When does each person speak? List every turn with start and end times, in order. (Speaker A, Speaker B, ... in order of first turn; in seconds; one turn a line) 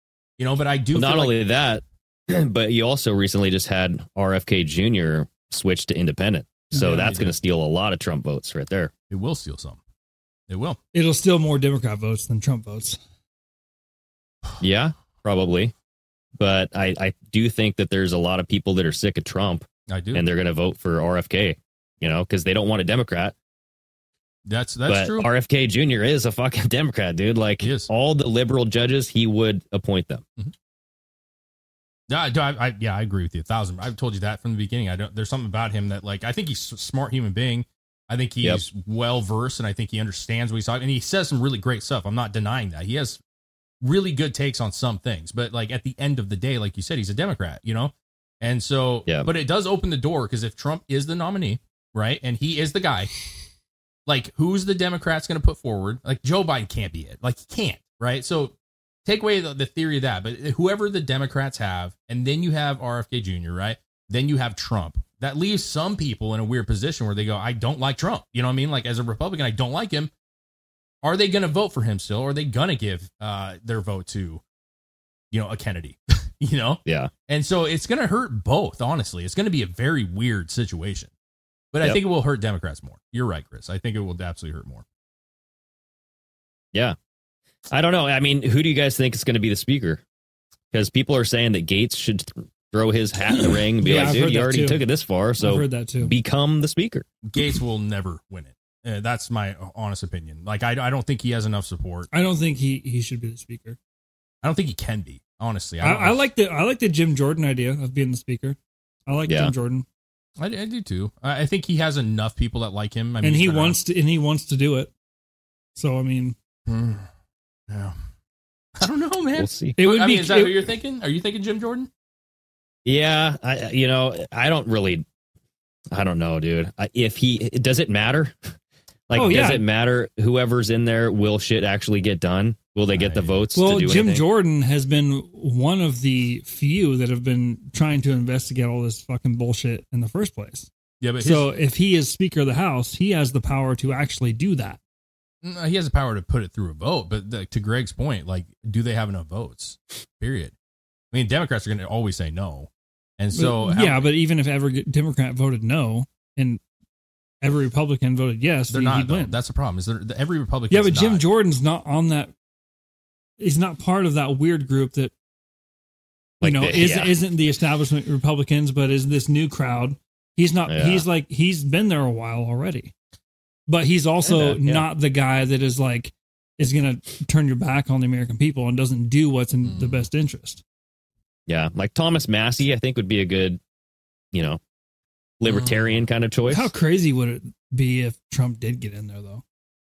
Speaker A: 0.4-1.4
Speaker B: 0.9-8.9
Speaker A: 6.7-7.3
Speaker C: 6.7-7.0
Speaker A: 9.1-9.8
Speaker A: 10.5-10.8
Speaker C: 10.9-13.0
Speaker B: 14.6-15.7
Speaker B: 16.4-23.3
Speaker A: 19.9-20.2
Speaker A: 24.4-25.3
Speaker B: 24.9-30.2
Speaker A: 27.6-27.9
Speaker A: 32.1-43.2
Speaker A: 43.8-53.1
Speaker A: 54.0-70.1
Speaker A: 71.0-74.4
Speaker A: 75.3-81.1
Speaker B: 76.8-77.1
Speaker A: 81.7-84.8
Speaker B: 87.7-90.0
Speaker B: 90.7-97.0
Speaker C: 93.3-94.8
Speaker C: 95.4-96.1
Speaker A: 97.3-102.1
Speaker C: 102.1-103.8
Speaker A: 104.4-106.3
Speaker C: 105.8-109.8
Speaker B: 109.3-109.5
Speaker A: 110.4-113.8
Speaker C: 113.2-114.9
Speaker C: 115.8-116.3
Speaker A: 116.7-117.1
Speaker A: 117.7-118.0
Speaker A: 118.8-121.9
Speaker B: 119.3-119.8
Speaker C: 119.8-120.6
Speaker B: 122.8-125.0
Speaker B: 125.9-128.5
Speaker B: 129.1-134.2
Speaker C: 129.1-129.6
Speaker A: 132.9-133.4
Speaker C: 133.5-140.7
Speaker A: 141.0-141.5
Speaker C: 141.2-144.8
Speaker A: 145.4-150.5
Speaker A: 151.1-154.1
Speaker C: 153.3-156.6
Speaker C: 157.4-159.3
Speaker A: 158.7-161.2
Speaker C: 160.7-162.3
Speaker C: 163.4-165.1
Speaker B: 166.4-167.2
Speaker C: 166.4-172.9
Speaker B: 170.7-171.1
Speaker C: 173.7-180.6
Speaker B: 174.2-174.9
Speaker A: 179.6-180.1
Speaker B: 181.5-183.6
Speaker B: 184.3-184.6
Speaker B: 185.4-186.7
Speaker A: 185.4-186.0
Speaker C: 186.5-189.4